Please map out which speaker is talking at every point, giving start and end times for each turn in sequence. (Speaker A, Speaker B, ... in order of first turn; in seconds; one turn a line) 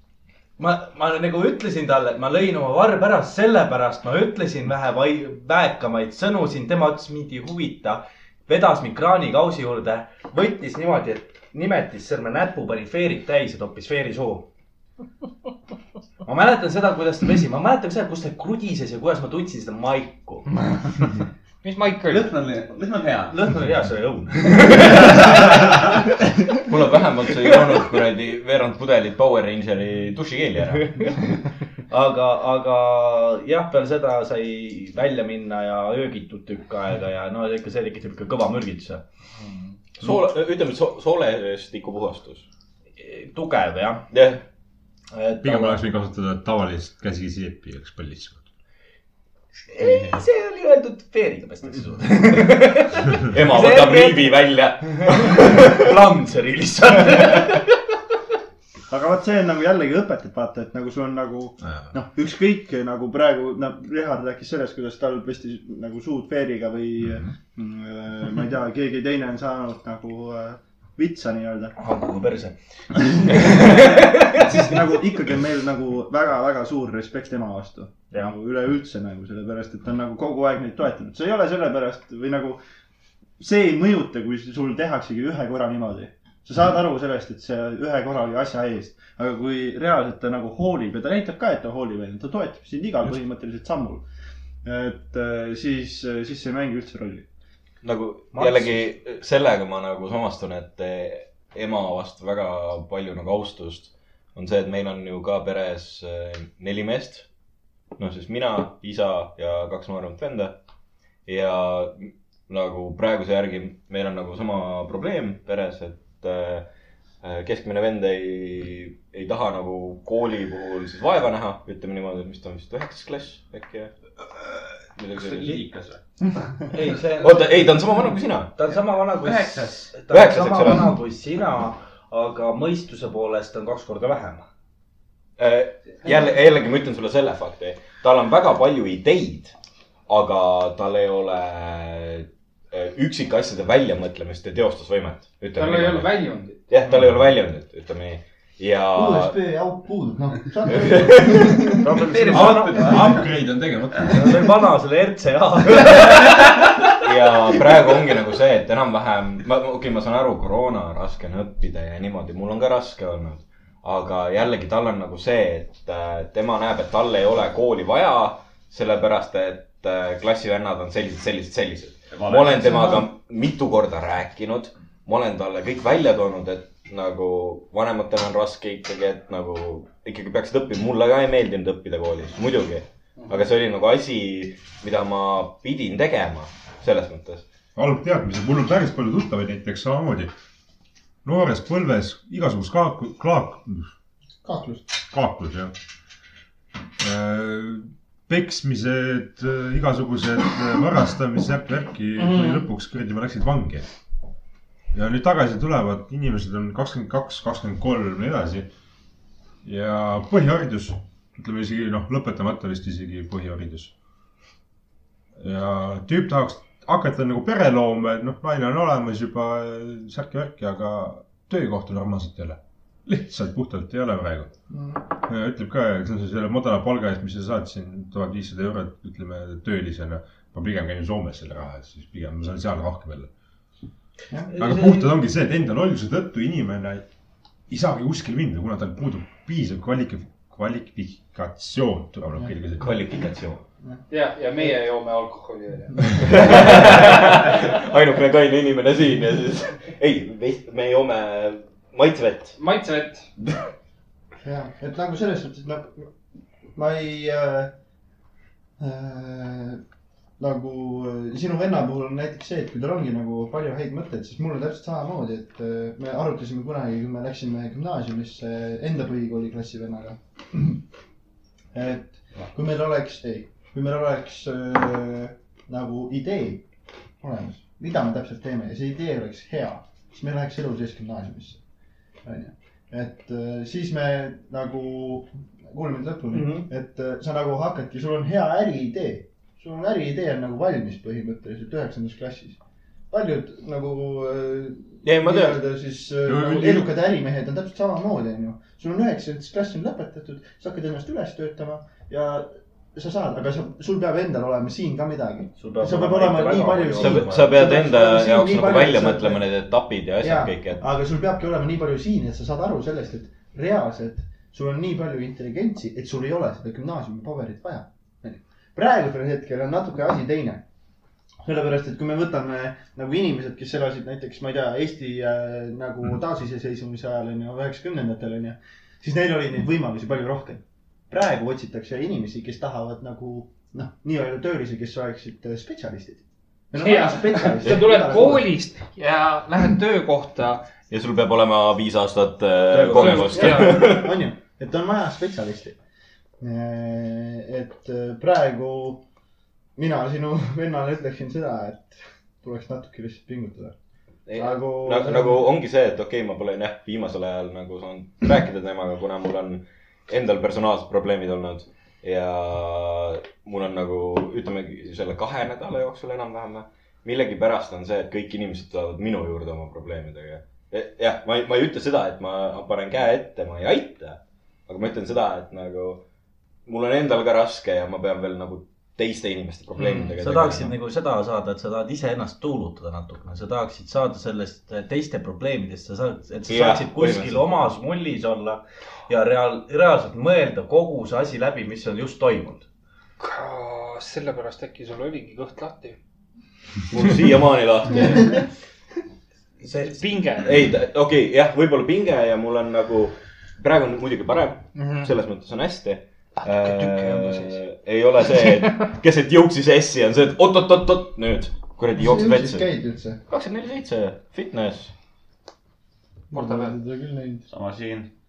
Speaker A: 0.6-14.5
Speaker A: 16.2-20.6
Speaker B: 21.6-22.3
Speaker C: 22.1-23.4
Speaker A: 23.3-26.0
Speaker D: 26.6-31.2
Speaker A: 30.8-31.3
Speaker A: 31.9-39.0
Speaker D: 40.0-42.5
Speaker A: 43.0-44.1
Speaker D: 44.1-44.4
Speaker A: 45.1-45.8
Speaker E: 45.4-48.4
Speaker A: 49.7-57.8
Speaker C: 49.8-50.1
Speaker D: 53.2-55.9
Speaker F: 58.9-71.8
Speaker A: 71.8-74.6
Speaker F: 73.4-73.8
Speaker F: 74.4-82.6
Speaker F: 83.4-94.0
Speaker F: 94.7-97.2
Speaker D: 97.8-107.3
Speaker A: 98.3-98.8
Speaker D: 108.0-110.6
Speaker D: 111.3-116.7
Speaker D: 117.2-123.9
Speaker D: 125.0-125.6
Speaker C: 125.1-127.5
Speaker A: 126.7-127.4
Speaker D: 127.2-128.5
Speaker A: 128.6-134.5
Speaker C: 129.2-129.9
Speaker D: 130.1-130.9
Speaker D: 135.4-139.5
Speaker D: 140.1-149.3
Speaker B: 145.6-146.6
Speaker F: 148.9-152.0
Speaker D: 150.7-153.2
Speaker A: 151.9-153.3
Speaker C: 152.0-153.3
Speaker E: 152.5-154.0
Speaker A: 154.1-157.1
Speaker D: 157.0-187.4
Speaker C: 172.1-173.1
Speaker E: 187.8-190.3
Speaker E: 191.2-193.9
Speaker F: 194.4-194.9
Speaker E: 195.1-195.7
Speaker E: 197.0-203.9
Speaker E: 204.9-208.7
Speaker E: 209.6-213.9
Speaker E: 215.4-224.5
Speaker F: 224.7-225.1
Speaker E: 225.2-233.3
Speaker A: 234.5-235.0
Speaker E: 234.6-237.1
Speaker E: 237.7-243.0
Speaker D: 242.8-243.6
Speaker B: 244.1-246.6
Speaker D: 246.2-252.6
Speaker B: 252.6-253.3
Speaker F: 254.4-256.1
Speaker F: 256.8-257.7
Speaker F: 258.8-259.8
Speaker F: 260.4-270.8
Speaker F: 271.7-276.6
Speaker F: 277.2-281.6
Speaker F: 282.2-292.6
Speaker A: 286.3-286.7
Speaker F: 293.1-309.4
Speaker D: 295.0-295.6
Speaker E: 296.3-296.9
Speaker A: 305.6-307.6
Speaker D: 307.0-310.8
Speaker F: 310.2-320.6
Speaker F: 321.4-338.5
Speaker B: 336.8-340.6
Speaker D: 340.9-344.1
Speaker A: 342.7-343.5
Speaker B: 342.9-343.9
Speaker F: 342.9-345.8
Speaker F: 346.4-349.0
Speaker F: 349.8-353.7
Speaker D: 354.3-376.0
Speaker F: 354.3-355.5
Speaker D: 376.7-380.7
Speaker A: 379.9-392.7
Speaker D: 386.5-387.5
Speaker B: 393.2-396.0
Speaker D: 396.9-398.4
Speaker A: 399.6-400.1
Speaker B: 399.9-400.5
Speaker D: 400.4-412.7
Speaker B: 404.8-405.1
Speaker A: 406.8-407.4
Speaker F: 412.0-413.2
Speaker D: 413.3-414.9
Speaker B: 416.3-416.8
Speaker F: 416.3-417.5
Speaker C: 417.5-418.1